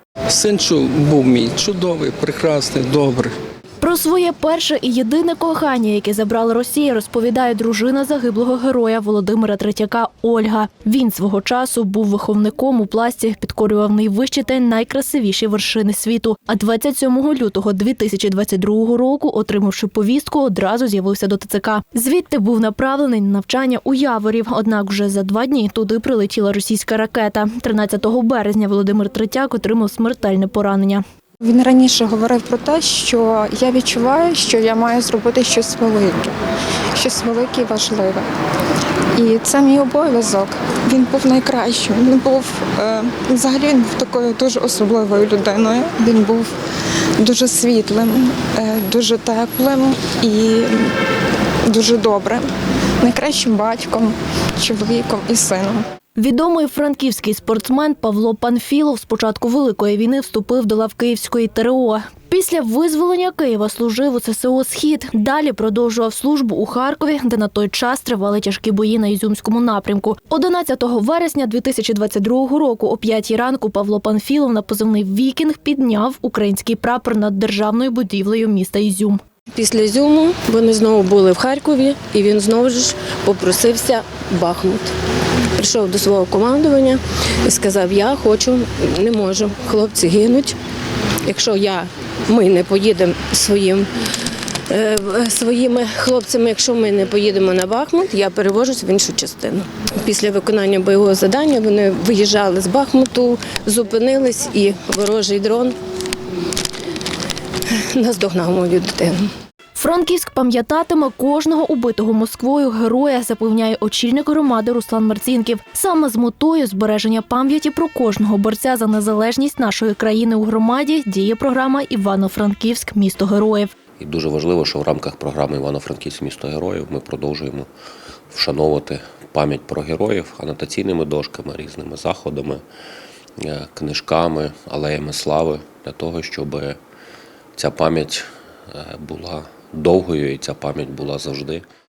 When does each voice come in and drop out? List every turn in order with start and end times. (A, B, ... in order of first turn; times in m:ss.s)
0:00.3-0:03.3 A
0:03.8-0:31.0 B
0:31.4-0:36.3 C
0:36.9-0:38.2 C
0:39.2-0:46.5 C
0:47.2-0:50.9 C
0:51.7-0:52.5 C
0:53.0-0:55.8 C
0:56.2-1:19.2 B
1:19.6-1:24.9 D
1:25.6-1:30.6 D
1:31.2-1:33.9 D
1:34.7-1:45.7 D
1:47.7-1:49.3 D
1:49.8-2:03.7 B
2:04.0-2:07.7 E
2:08.3-2:12.6 E
2:13.4-2:16.8 E
2:17.6-2:21.6 E